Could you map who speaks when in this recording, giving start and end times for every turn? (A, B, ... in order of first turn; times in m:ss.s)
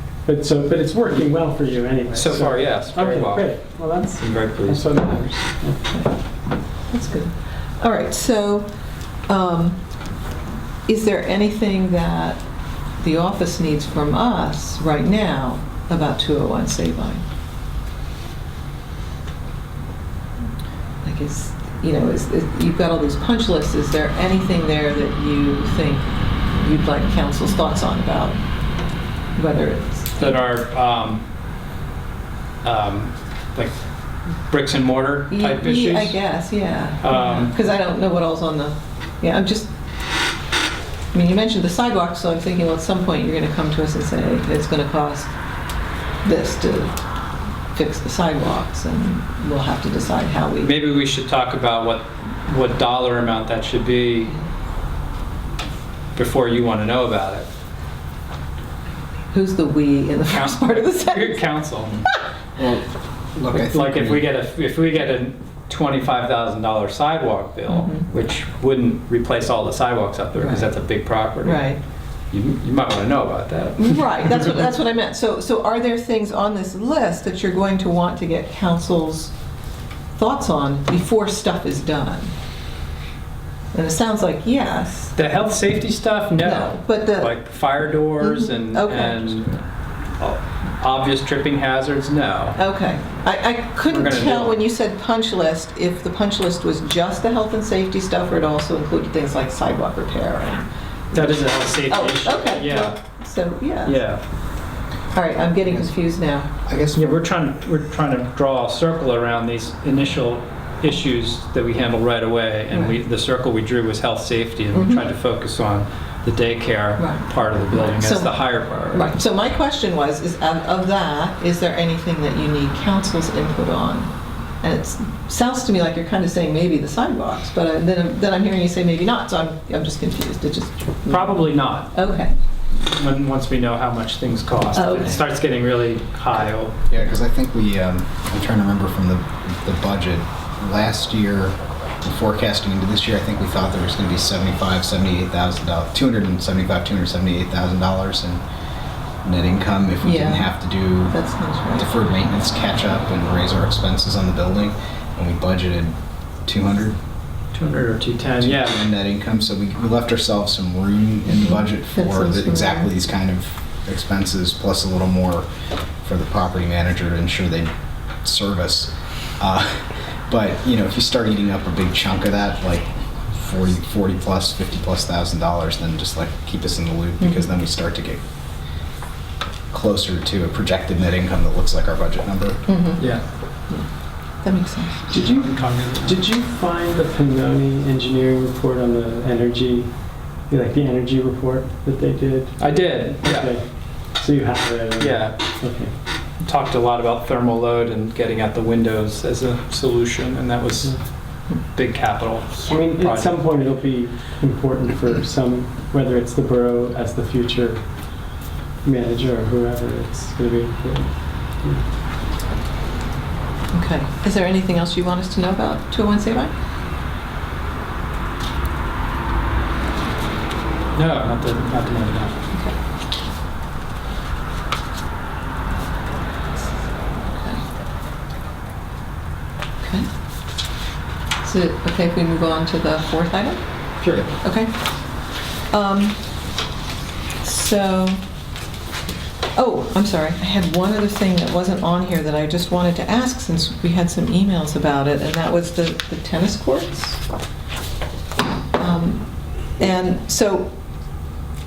0:00.2-0:05.9 A
0:02.1-0:05.0 B
0:06.9-0:08.7 C
0:09.3-0:09.8 C
0:10.9-0:12.4 C
0:13.0-0:17.2 C
0:21.0-0:28.4 C
0:29.4-0:30.4 C
0:30.2-0:31.2 B
0:32.6-0:33.8 B
0:34.5-0:36.2 B
0:35.3-0:39.7 C
0:37.0-0:37.6 B
0:41.1-0:45.3 C
0:46.2-0:47.0 C
0:47.7-0:50.7 C
0:50.6-0:54.4 B
0:56.2-0:57.5 B
0:59.3-1:01.5 C
1:00.3-1:01.9 B
1:02.6-1:04.2 D
1:03.6-1:11.8 B
1:07.7-1:08.1 C
1:10.4-1:10.7 C
1:11.4-1:11.8 C
1:12.3-1:14.6 B
1:13.8-1:19.3 C
1:20.2-1:22.3 C
1:23.7-1:25.2 C
1:25.2-1:29.6 B
1:26.4-1:27.3 C
1:28.2-1:29.6 C
1:30.2-1:32.6 B
1:32.6-1:44.0 C
1:33.9-1:34.6 B
1:41.1-1:43.0 B
1:43.8-1:44.2 B
1:45.1-1:46.6 C
1:46.6-1:47.2 D
1:47.0-1:59.1 B
1:52.7-1:53.0 C
1:54.7-1:55.1 C
1:57.0-2:12.3 C
2:11.1-2:12.0 B
2:12.8-2:16.8 B
2:14.7-2:15.2 C
2:16.9-2:28.4 D
2:29.2-2:31.2 D
2:30.0-2:30.5 C
2:31.1-2:31.9 C
2:31.8-2:37.0 D
2:37.5-2:38.8 B
2:38.4-2:45.5 D
2:41.3-2:42.9 C
2:46.0-2:47.7 D
2:48.2-2:58.2 D
2:57.2-2:57.5 C
2:59.7-3:02.6 D
3:02.7-3:03.0 C
3:03.0-3:03.2 B
3:04.4-3:05.1 C
3:05.1-3:06.2 B
3:05.1-3:15.9 A
3:12.6-3:13.5 B
3:15.0-3:15.4 B
3:16.4-3:21.0 B
3:21.5-3:23.4 B
3:22.7-3:28.3 A
3:28.8-3:31.9 A
3:33.7-3:36.5 C
3:41.0-3:42.3 B
3:47.2-3:47.6 C
3:51.4-3:53.6 C
3:54.4-3:54.7 C
3:55.7-3:56.2 C
3:57.4-3:58.2 C
3:59.6-4:07.2 C
4:08.8-4:09.2 C
4:09.8-4:10.7 C